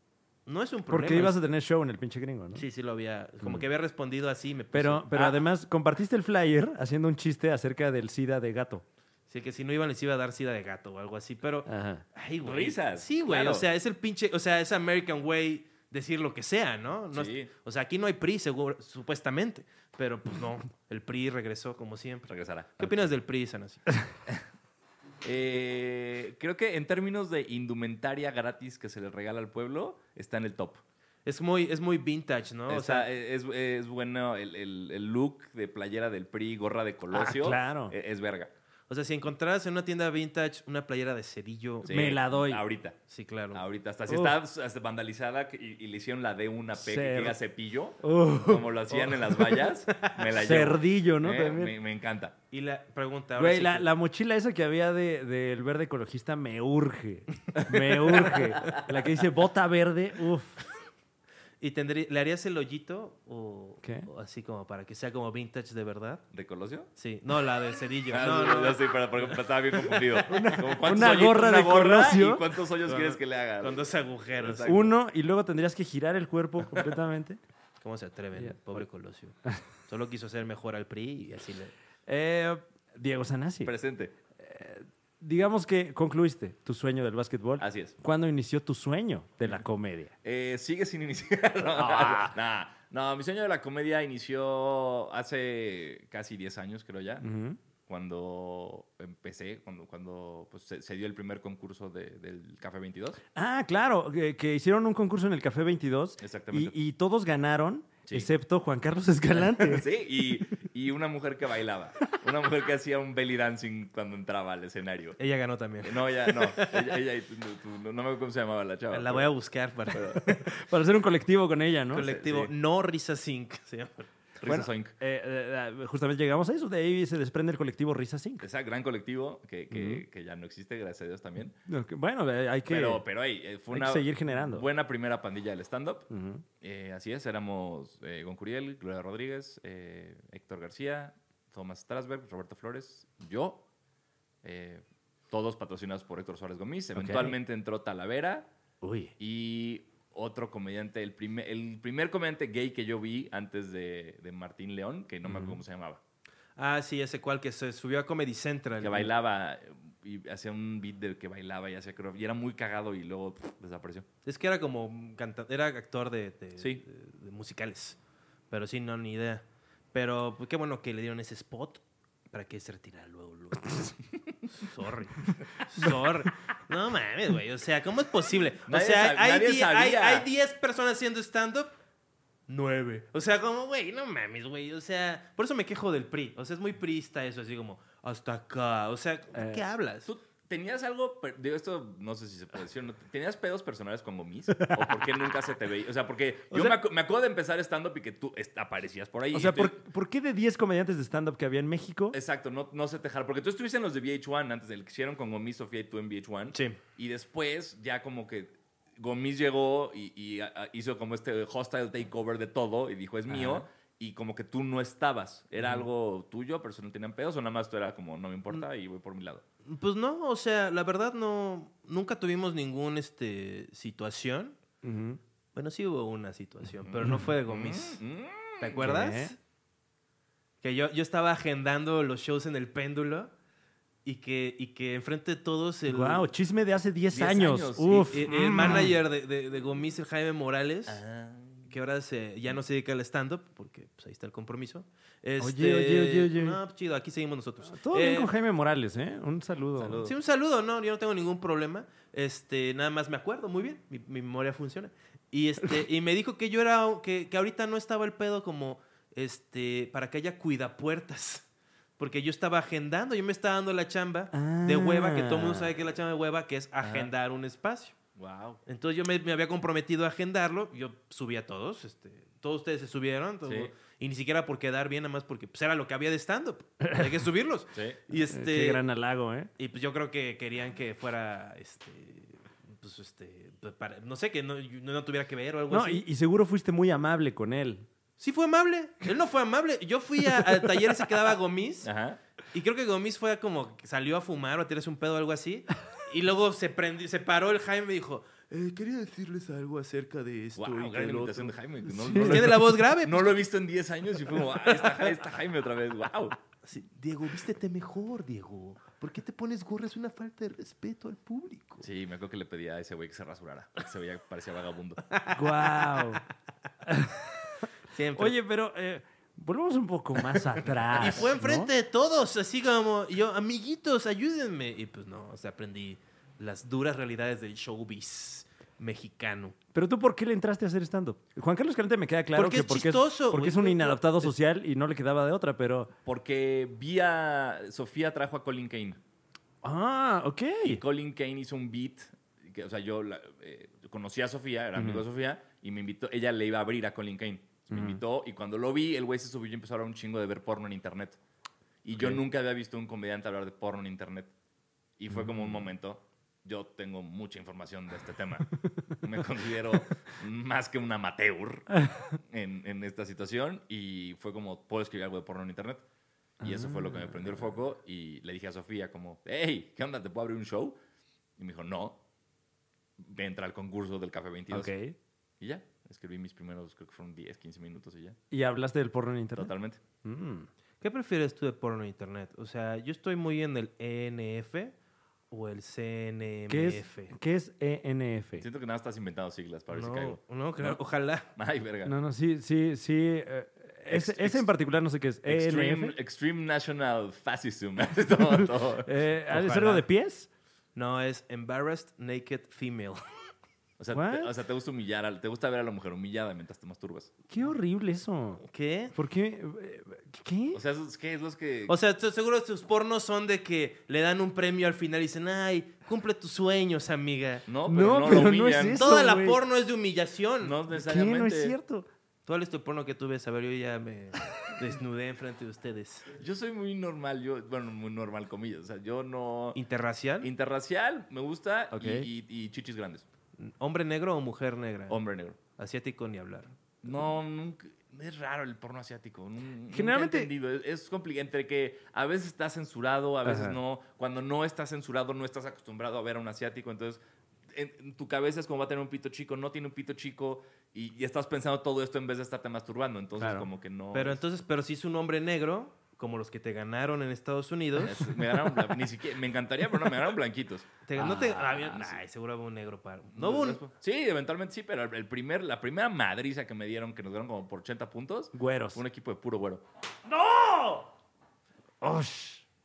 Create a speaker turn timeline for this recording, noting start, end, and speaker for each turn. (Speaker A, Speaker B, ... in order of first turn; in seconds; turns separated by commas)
Speaker A: 0.5-1.4, Speaker B: 0.9-2.6, Speaker A: 2.5-5.3, Speaker B: 4.7-8.8, Speaker A: 9.3-23.9, Speaker B: 11.7-12.0, Speaker C: 12.4-13.7, Speaker C: 17.1-17.5, Speaker C: 22.3-23.1, Speaker C: 25.2-30.8, Speaker A: 31.3-33.1, Speaker C: 32.7-38.5, Speaker B: 37.1-38.0, Speaker A: 38.9-42.0, Speaker C: 41.9-43.0, Speaker B: 41.9-42.6, Speaker A: 43.1-43.6, Speaker C: 43.5-52.4, Speaker B: 44.1-44.4, Speaker B: 46.8-47.4, Speaker B: 48.0-48.7, Speaker A: 48.9-50.2, Speaker B: 50.3-51.7, Speaker A: 52.5-53.9, Speaker B: 53.4-60.6, Speaker C: 57.6-58.6, Speaker A: 61.6-66.2, Speaker B: 63.8-64.1, Speaker C: 66.3-66.9, Speaker A: 67.0-70.5, Speaker C: 68.1-74.9, Speaker B: 70.3-72.5, Speaker A: 72.8-74.8, Speaker B: 74.7-77.4, Speaker A: 77.8-79.4, Speaker B: 78.4-78.8, Speaker A: 79.9-81.7, Speaker B: 82.1-83.7, Speaker C: 83.6-84.1, Speaker B: 84.4-90.1, Speaker C: 87.6-88.0, Speaker C: 90.2-97.2, Speaker B: 91.7-92.3, Speaker B: 97.2-97.6, Speaker C: 97.9-103.2, Speaker B: 103.3-109.9, Speaker C: 106.2-106.7, Speaker C: 109.4-115.2, Speaker A: 115.2-116.9, Speaker C: 115.8-119.3, Speaker A: 118.9-120.5, Speaker C: 119.9-120.2, Speaker B: 120.3-122.1, Speaker A: 121.9-124.1, Speaker C: 122.0-122.5, Speaker C: 124.4-125.0, Speaker B: 124.5-128.4, Speaker C: 128.4-131.6, Speaker B: 129.7-130.0, Speaker B: 131.7-133.0, Speaker C: 132.7-136.1, Speaker B: 133.7-134.7, Speaker B: 136.1-136.4, Speaker C: 136.6-143.6, Speaker C: 144.4-148.5, Speaker B: 147.0-147.4, Speaker B: 148.8-149.1, Speaker C: 149.2-156.0, Speaker B: 155.2-155.6, Speaker A: 156.6-159.1, Speaker C: 158.8-164.1, Speaker A: 164.2-168.0, Speaker A: 168.5-173.9, Speaker A: 174.5-181.7, Speaker C: 178.7-180.3, Speaker A: 182.5-190.1, Speaker B: 189.3-189.6, Speaker C: 190.1-199.8, Speaker B: 194.6-194.9, Speaker B: 199.3-202.2, Speaker C: 202.1-219.4, Speaker A: 206.5-206.8, Speaker B: 213.3-213.6, Speaker A: 219.7-224.6, Speaker B: 224.8-225.2, Speaker A: 225.6-228.0, Speaker C: 226.9-228.9, Speaker A: 228.6-229.4, Speaker B: 228.8-229.3, Speaker A: 230.6-233.3, Speaker A: 234.1-236.3, Speaker B: 235.9-238.9, Speaker C: 237.1-238.9, Speaker A: 238.1-241.0, Speaker C: 240.9-241.7, Speaker A: 241.7-248.3, Speaker B: 245.4-246.6, Speaker B: 247.7-250.1, Speaker C: 249.8-250.1, Speaker A: 250.0-261.5, Speaker A: 262.0-267.9, Speaker B: 264.3-265.7, Speaker C: 266.8-267.1, Speaker C: 268.2-268.6, Speaker A: 268.7-278.8, Speaker C: 273.5-273.7, Speaker B: 276.8-277.2, Speaker C: 277.7-278.0, Speaker B: 278.1-279.5, Speaker A: 279.6-286.0, Speaker B: 285.7-287.9, Speaker A: 288.2-291.9, Speaker C: 291.8-292.2, Speaker A: 292.5-301.6, Speaker C: 300.6-306.4, Speaker B: 301.9-302.7, Speaker A: 302.1-303.4, Speaker A: 304.6-305.1, Speaker A: 306.6-311.9, Speaker C: 311.8-315.0, Speaker A: 315.1-316.2, Speaker B: 315.3-316.2, Speaker B: 316.9-317.5, Speaker A: 317.9-318.4, Speaker B: 318.2-321.7, Speaker A: 320.9-329.6, Speaker B: 329.7-335.9, Speaker A: 332.4-334.3, Speaker C: 336.1-339.0, Speaker B: 339.6-340.8, Speaker C: 340.6-351.2, Speaker B: 344.8-345.0, Speaker B: 347.7-348.0, Speaker C: 351.8-354.3, Speaker C: 355.0-365.8, Speaker B: 355.1-355.6, Speaker B: 366.4-367.4, Speaker C: 366.4-370.8, Speaker C: 371.4-372.0, Speaker C: 373.0-374.7, Speaker B: 374.5-374.9, Speaker C: 375.4-378.2, Speaker B: 378.3-379.5, Speaker C: 379.4-379.8, Speaker B: 380.0-380.5, Speaker A: 380.8-384.7, Speaker A: 385.3-387.1, Speaker B: 386.5-388.5, Speaker C: 388.4-390.8, Speaker A: 389.7-391.3, Speaker C: 391.3-391.9, Speaker B: 391.9-396.0, Speaker C: 393.9-394.5, Speaker C: 395.3-398.9, Speaker B: 398.4-400.3, Speaker A: 399.3-399.9, Speaker A: 400.8-403.0, Speaker C: 403.8-407.1, Speaker B: 403.9-404.3, Speaker B: 407.3-410.6, Speaker A: 408.4-408.9, Speaker C: 410.5-411.8, Speaker A: 411.7-417.5, Speaker C: 417.5-418.9, Speaker B: 417.7-419.4, Speaker A: 418.8-420.6, Speaker C: 420.4-421.6, Speaker B: 420.7-421.9, Speaker A: 422.3-426.1, Speaker C: 426.1-429.6, Speaker A: 429.6-430.3, Speaker C: 430.2-433.1, Speaker B: 431.7-432.1, Speaker A: 433.4-436.6, Speaker C: 434.9-435.4, Speaker C: 436.8-454.2, Speaker B: 439.7-440.3, Speaker B: 443.2-443.6, Speaker B: 453.2-453.5, Speaker A: 453.9-458.1, Speaker C: 457.8-460.7, Speaker A: 460.9-463.6, Speaker B: 461.0-461.9, Speaker C: 463.1-469.6, Speaker B: 468.4-468.8, Speaker B: 470.1-470.9, Speaker B: 471.8-472.4